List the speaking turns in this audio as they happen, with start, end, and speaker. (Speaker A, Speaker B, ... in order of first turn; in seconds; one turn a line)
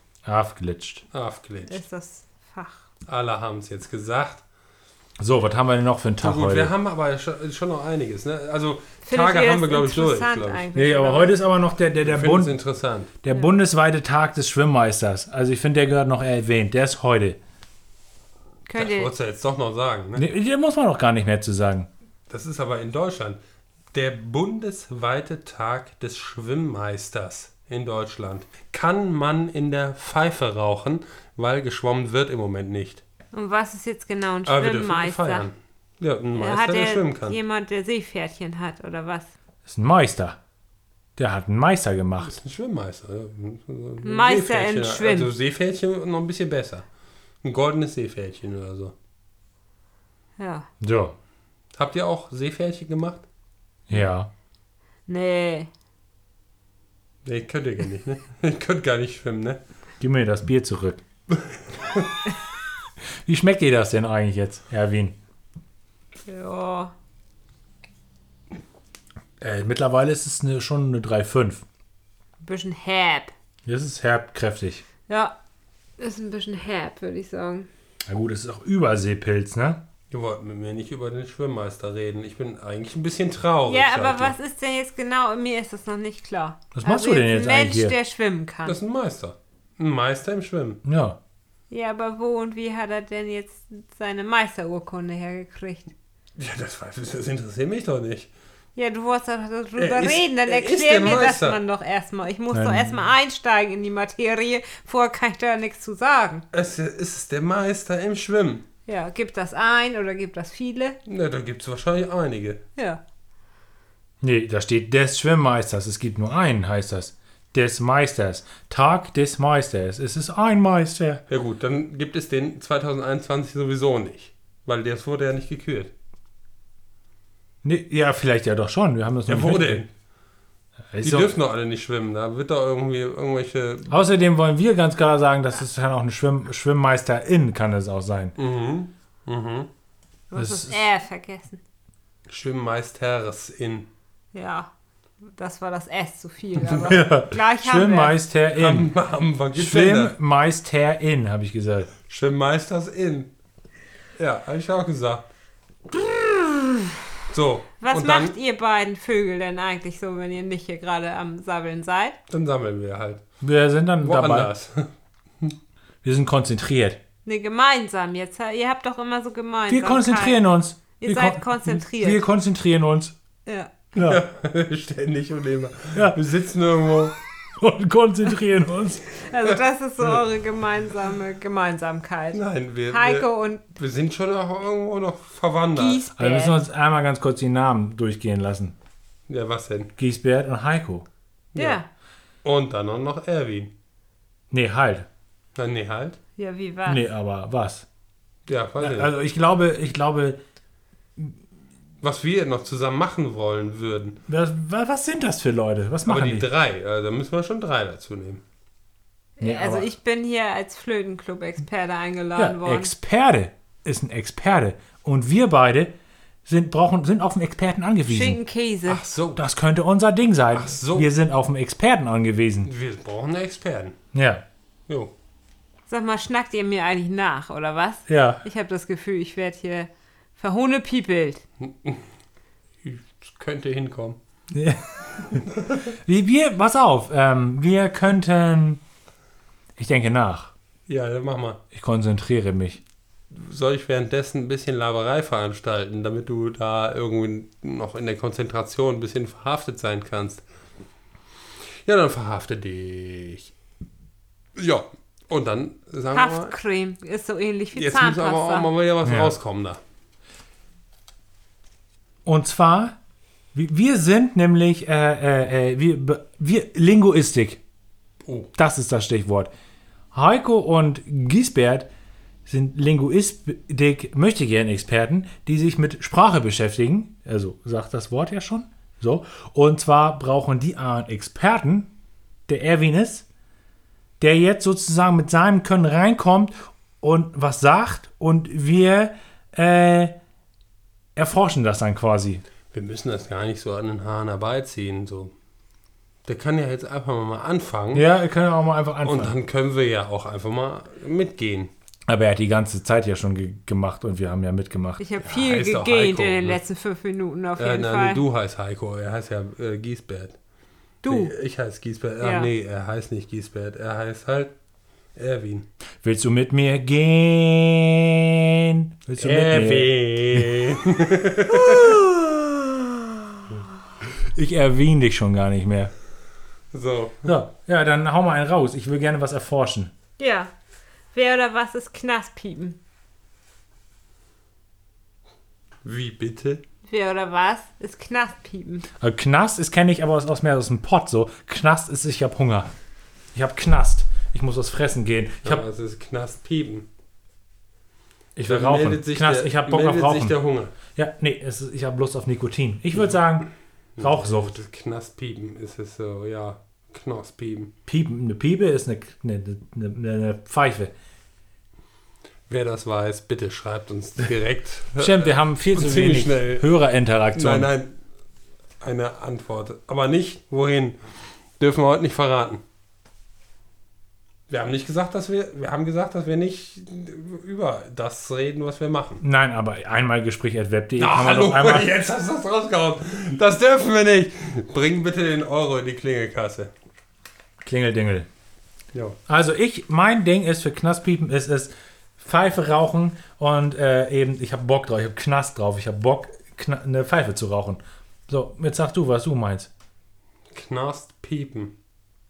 Speaker A: 0.2-1.0
Speaker B: 1.1-1.8
Speaker C: 1.7-2.9
Speaker B: 3.1-4.4
Speaker A: 5.2-6.7
Speaker B: 6.2-10.6
Speaker C: 9.1-11.4
Speaker A: 10.7-12.6
Speaker B: 12.0-13.1
Speaker A: 13.2-17.4
Speaker C: 18.6-19.1
Speaker B: 18.8-20.3
Speaker A: 20.1-21.9
Speaker B: 22.3-23.4
Speaker B: 23.9-33.0
Speaker C: 33.3-35.5
Speaker B: 34.5-37.4
Speaker C: 36.4-39.3
Speaker A: 39.6-40.4
Speaker A: 41.2-42.4
Speaker B: 42.2-46.9
Speaker C: 44.0-45.3
Speaker B: 47.4-48.9
Speaker C: 50.4-50.7
Speaker A: 50.8-51.1
Speaker B: 51.7-53.2
Speaker A: 53.9-54.3
Speaker C: 55.1-55.7
Speaker B: 57.2-59.6
Speaker A: 60.0-61.0
Speaker B: 61.4-62.1
Speaker A: 63.2-65.2
Speaker C: 66.3-66.9
Speaker A: 69.4-71.6
Speaker C: 72.4-73.3
Speaker A: 73.7-74.8
Speaker C: 75.1-75.3
Speaker C: 76.0-77.7
Speaker A: 78.0-79.8
Speaker B: 80.1-84.3
Speaker C: 83.7-88.8
Speaker A: 86.7-87.9
Speaker B: 88.6-90.8
Speaker A: 90.8-91.2
Speaker C: 91.7-95.9
Speaker B: 96.3-98.3
Speaker C: 98.8-106.4
Speaker B: 99.8-101.6
Speaker A: 102.5-103.0
Speaker B: 106.5-108.6
Speaker C: 108.9-111.0
Speaker B: 111.0-112.6
Speaker A: 114.2-121.2
Speaker B: 121.3-125.9
Speaker A: 127.6-129.8
Speaker B: 129.3-129.9
Speaker A: 130.9-131.3
Speaker B: 131.0-133.9
Speaker A: 133.9-138.3
Speaker B: 138.4-139.7
Speaker C: 140.3-141.6
Speaker A: 140.3-140.8
Speaker B: 142.3-143.9
Speaker C: 144.3-144.7
Speaker C: 145.3-148.2
Speaker A: 146.7-148.9
Speaker B: 148.6-150.2
Speaker A: 149.5-151.9
Speaker B: 152.1-153.3
Speaker B: 154.2-155.2
Speaker B: 157.3-158.3
Speaker C: 157.8-162.2
Speaker B: 162.3-163.2
Speaker A: 163.4-164.5
Speaker B: 164.0-164.9
Speaker A: 166.0-167.0
Speaker C: 167.2-170.4
Speaker A: 169.7-173.1
Speaker C: 171.0-172.2
Speaker C: 173.4-173.7
Speaker B: 173.9-177.2
Speaker A: 173.9-174.2
Speaker A: 175.9-176.2
Speaker A: 177.6-179.0
Speaker C: 179.2-183.6
Speaker B: 182.3-186.0
Speaker C: 185.8-186.6
Speaker A: 186.2-188.7
Speaker B: 189.3-189.9
Speaker A: 190.0-191.1
Speaker C: 191.5-191.8
Speaker B: 192.4-193.7
Speaker A: 194.5-195.1
Speaker B: 195.6-196.2
Speaker C: 196.4-197.0
Speaker A: 196.8-197.8
Speaker B: 198.5-199.1
Speaker A: 198.8-200.4
Speaker B: 202.0-204.2
Speaker A: 204.3-206.5
Speaker B: 206.0-208.4
Speaker C: 209.4-212.9
Speaker A: 209.4-209.9
Speaker A: 212.3-215.9
Speaker A: 216.4-218.4
Speaker C: 218.1-219.0
Speaker B: 218.8-219.4
Speaker A: 219.3-222.7
Speaker B: 220.5-221.1
Speaker B: 222.6-223.9
Speaker A: 224.1-224.4
Speaker C: 225.9-231.4
Speaker A: 228.1-228.4
Speaker B: 231.6-232.1
Speaker B: 232.8-234.2
Speaker A: 234.5-238.8
Speaker B: 235.3-235.8
Speaker A: 239.8-240.5
Speaker B: 240.9-241.6
Speaker A: 241.7-242.8
Speaker B: 243.3-250.4
Speaker B: 251.8-253.5
Speaker B: 254.6-256.5
Speaker C: 256.1-258.7
Speaker B: 257.7-259.8
Speaker A: 259.0-259.3
Speaker A: 262.2-262.9
Speaker A: 263.5-267.6
Speaker B: 268.2-268.5
Speaker A: 268.5-269.5
Speaker A: 270.1-271.9
Speaker A: 272.4-281.9
Speaker A: 282.5-283.2
Speaker A: 284.2-290.1
Speaker A: 291.1-292.4
Speaker B: 292.7-295.3
Speaker B: 296.2-298.1
Speaker A: 297.9-299.4
Speaker B: 299.0-301.7
Speaker A: 302.1-305.0
Speaker C: 305.0-308.2
Speaker B: 305.2-306.6
Speaker B: 307.6-310.4
Speaker C: 311.0-311.3
Speaker B: 311.0-314.5
Speaker C: 312.2-312.5
Speaker B: 315.1-315.7
Speaker A: 316.0-320.6
Speaker B: 319.2-321.9
Speaker A: 321.5-323.1
Speaker A: 324.2-325.9
Speaker B: 326.7-327.3
Speaker A: 327.2-329.9
Speaker C: 330.2-330.5
Speaker C: 331.1-332.8
Speaker B: 335.8-336.6
Speaker C: 336.9-338.9
Speaker A: 339.0-342.7
Speaker A: 343.3-345.6
Speaker B: 345.4-346.9
Speaker A: 348.4-354.6
Speaker B: 348.4-350.7
Speaker B: 352.9-353.2
Speaker B: 354.0-357.7
Speaker A: 357.9-360.9
Speaker B: 362.5-366.7
Speaker A: 365.0-367.7
Speaker B: 367.3-367.9
Speaker B: 368.8-371.0
Speaker B: 371.6-372.6
Speaker B: 374.5-379.2
Speaker A: 379.2-381.9
Speaker B: 381.0-386.7
Speaker A: 387.6-388.3
Speaker A: 389.3-399.7
Speaker B: 400.5-401.7